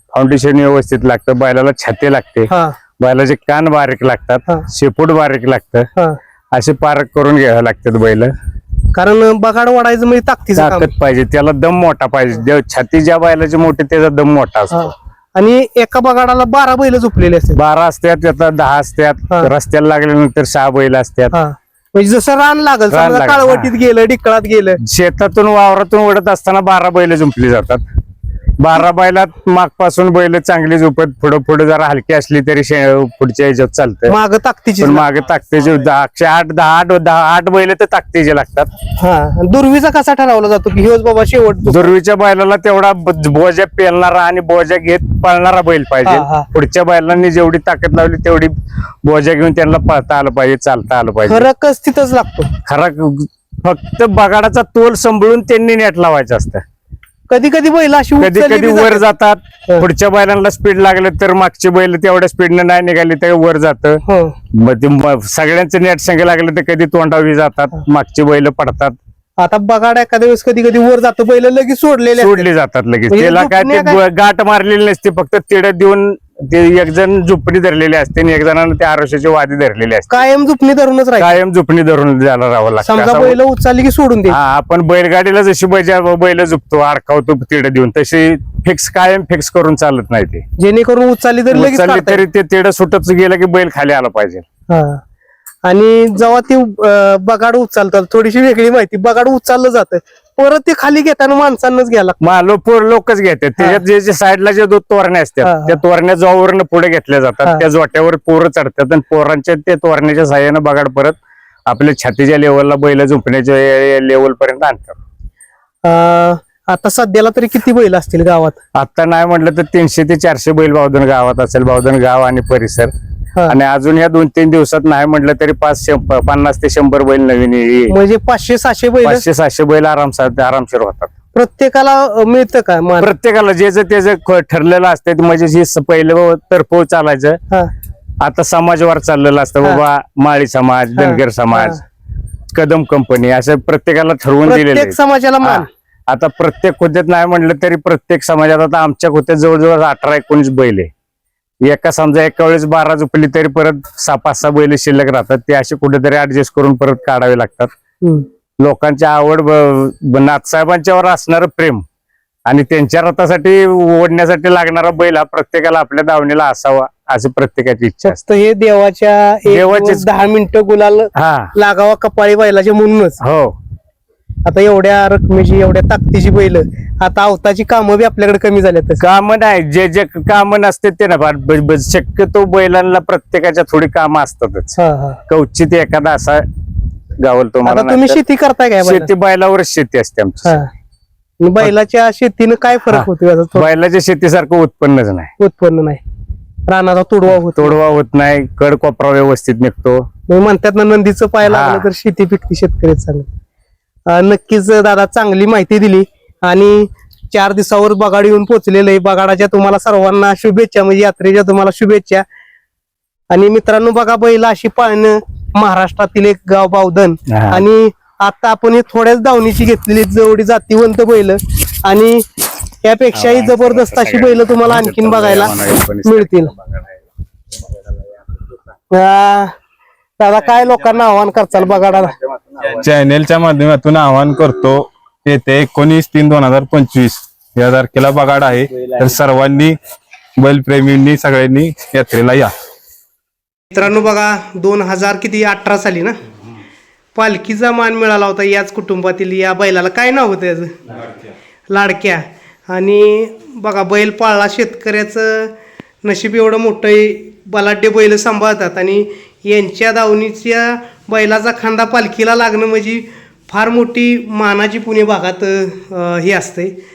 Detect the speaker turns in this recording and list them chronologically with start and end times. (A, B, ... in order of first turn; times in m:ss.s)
0:00.1-0:02.5 A
0:03.0-0:05.9 A
0:06.5-0:08.3 A
0:08.9-0:10.9 B
0:10.6-0:14.9 A
0:14.7-0:17.6 B
0:17.5-0:21.3 A
0:21.3-0:24.8 B
0:22.9-0:23.7 A
0:24.8-0:27.8 A
0:28.6-0:34.1 A
0:34.1-0:35.0 B
0:34.8-0:38.7 A
0:39.0-0:41.9 B
0:41.7-0:48.5 A
0:46.0-0:46.5 B
0:49.0-0:51.5 A
0:51.3-0:52.5 B
0:52.6-0:56.6 A
0:57.3-0:59.0 B
0:58.2-1:04.0 A
1:04.0-1:04.3 B
1:04.6-1:08.9 A
1:09.4-1:12.5 B
1:12.2-1:20.2 A
1:13.1-1:14.0 B
1:20.1-1:21.4 B
1:21.2-1:23.4 A
1:22.8-1:24.4 B
1:24.3-1:30.4 A
1:30.6-1:32.2 B
1:31.5-1:34.4 A
1:34.7-1:35.0 B
1:35.6-1:42.2 B
1:42.2-1:51.2 A
1:45.4-1:45.8 B
1:51.7-1:55.0 A
1:55.8-1:58.6 B
1:58.8-2:02.9 A
2:03.5-2:07.9 A
2:07.9-2:09.2 B
2:09.0-2:11.1 A
2:11.3-2:13.1 B
2:13.0-2:17.4 A
2:18.2-2:21.8 A
2:20.9-2:21.8 B
2:22.5-2:30.9 A
2:24.4-2:25.7 B
2:31.6-2:37.7 A
2:38.6-2:41.8 A
2:42.4-2:48.2 A
2:48.0-2:53.2 B
2:49.4-2:50.1 A
2:51.2-2:51.5 A
2:53.2-2:53.5 A
2:54.4-2:59.0 B
2:59.0-3:04.7 A
3:04.8-3:05.2 B
3:05.3-3:06.4 A
3:07.2-3:08.2 A
3:07.6-3:09.1 B
3:08.8-3:10.7 A
3:11.4-3:13.7 B
3:12.9-3:15.3 A
3:15.4-3:16.0 B
3:16.7-3:17.8 B
3:17.3-3:20.0 A
3:20.3-3:23.3 B
3:21.4-3:21.9 A
3:24.1-3:32.2 B
3:33.3-3:42.2 B
3:37.3-3:37.6 A
3:42.8-3:45.5 B
3:43.1-3:47.0 A
3:46.0-3:46.5 B
3:48.9-3:49.5 B
3:50.2-3:52.1 B
3:52.7-3:59.8 C
4:00.4-4:02.5 C
4:03.7-4:06.1 B
4:07.2-4:10.7 B
4:11.7-4:26.7 B